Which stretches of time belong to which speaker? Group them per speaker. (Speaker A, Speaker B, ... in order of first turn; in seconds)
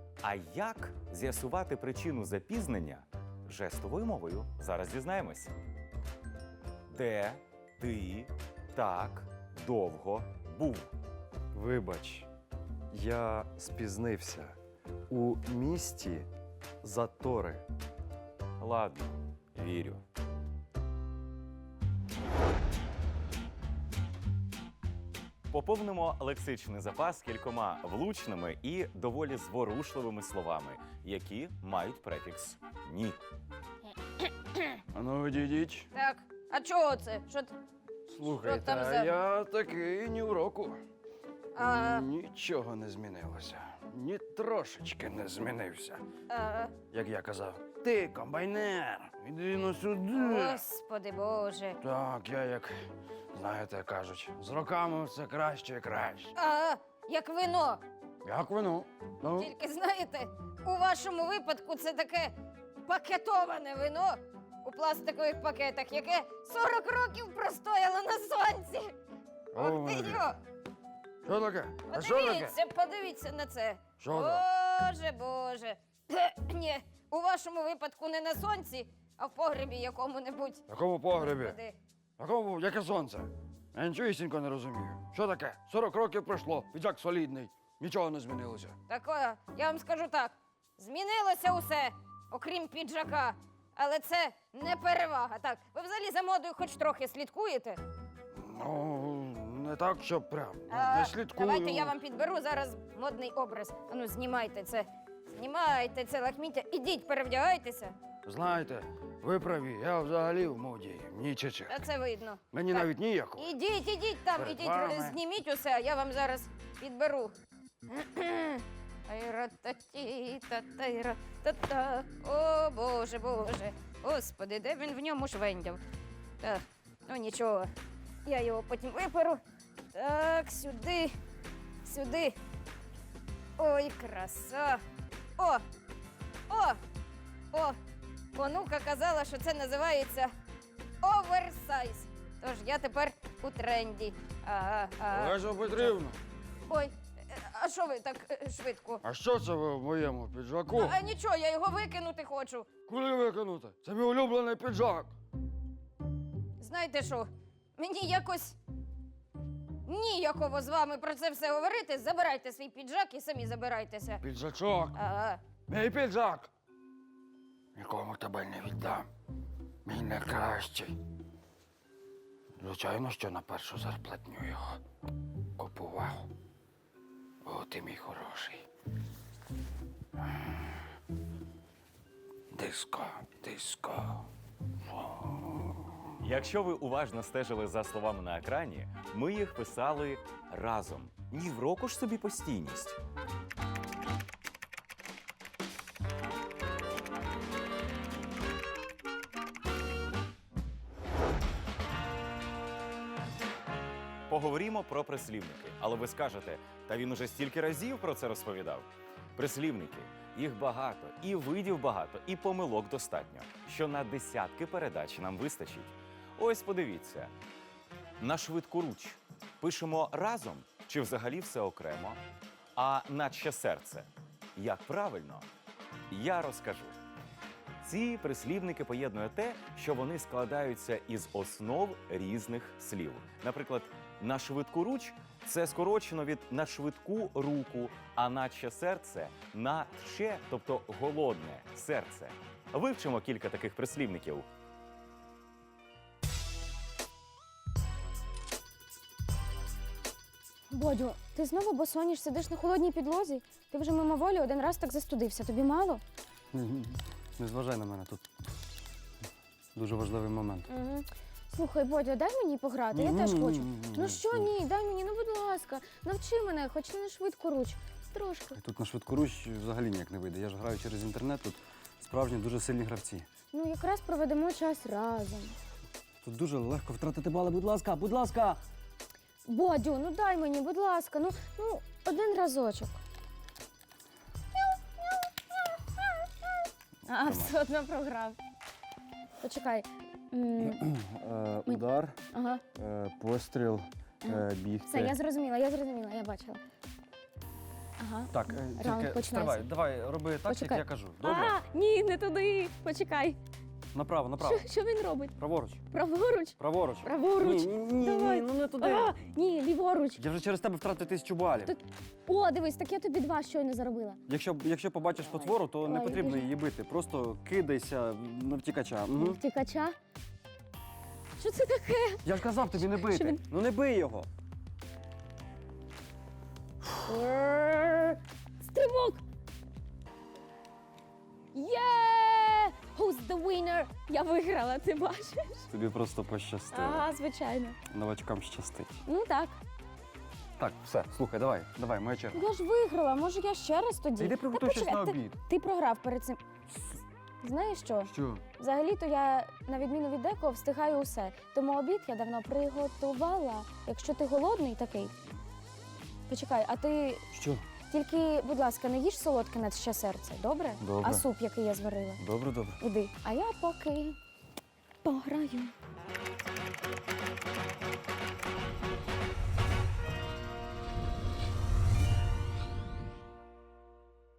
Speaker A: 0.2-5.5, 6.9-10.9, 18.6-20.0, 25.5-33.2, 186.2-193.0, 204.3-217.3, 218.2-222.2, 222.8-225.5, 226.1-226.9, 227.8-244.5
Speaker B: 11.5-12.3, 12.9-14.6, 15.1-16.3, 16.8-17.6, 256.5-258.2, 259.8-260.7, 262.9-264.5, 268.6-273.3, 276.2-278.6, 290.7-292.2, 292.7-295.1, 298.3-301.5, 303.9-304.6, 305.4-305.8, 306.6-309.1, 310.2-311.7, 314.3-319.4, 322.2-324.3, 335.7-337.0, 337.9-339.0, 340.6-342.4, 344.2-345.4, 348.1-348.4, 357.3-357.6, 360.8-361.1, 362.2-362.8
Speaker C: 34.9-35.9, 38.1-40.8, 41.6-46.0, 46.8-50.6, 51.8-52.8, 53.3-56.4, 58.2-59.5, 69.5-70.3, 71.2-72.6, 74.0-74.4, 80.7-81.6, 82.2-88.8, 98.3-102.0, 108.2-111.9, 112.5-113.5, 114.3-115.2, 145.1-146.2, 149.0-151.0, 152.8-155.1, 164.2-165.0, 165.6-166.5, 167.8-169.1, 169.8-171.0, 172.6-174.8, 175.6-176.3, 177.4-178.7, 182.5-184.2, 184.9-185.8
Speaker D: 35.9-37.5, 38.4-39.0, 41.6-42.0, 46.3-46.8, 50.2-51.8, 56.4-57.8, 59.4-62.3, 62.9-68.9, 69.6-70.3, 71.9-80.6, 81.2-81.8, 88.9-97.8, 100.7-107.9, 111.7-117.3, 118.0-125.8, 126.4-127.7, 128.2-129.4, 129.9-131.1, 131.8-132.3, 133.6-134.8, 136.5-136.8, 138.3-140.3, 141.0-145.4, 147.5-149.0, 150.8-152.7, 156.6-158.6, 159.9-164.2, 165.0-165.5
Speaker E: 250.7-256.0, 260.7-268.6, 273.5-275.6, 279.4-283.0, 287.1-288.4, 289.4-290.8, 291.6-292.6, 294.2-296.6, 298.0-299.7, 300.4-303.4, 304.4-305.3, 305.9-310.2, 311.6-314.2, 315.2-316.4, 319.1-320.0, 321.4-322.2, 322.8-323.4, 327.0-329.2, 331.5-335.7, 336.7-337.8, 339.0-339.6, 342.3-346.4, 347.4-355.1, 356.3-357.2, 357.9-362.2, 362.8-364.2, 365.0-365.7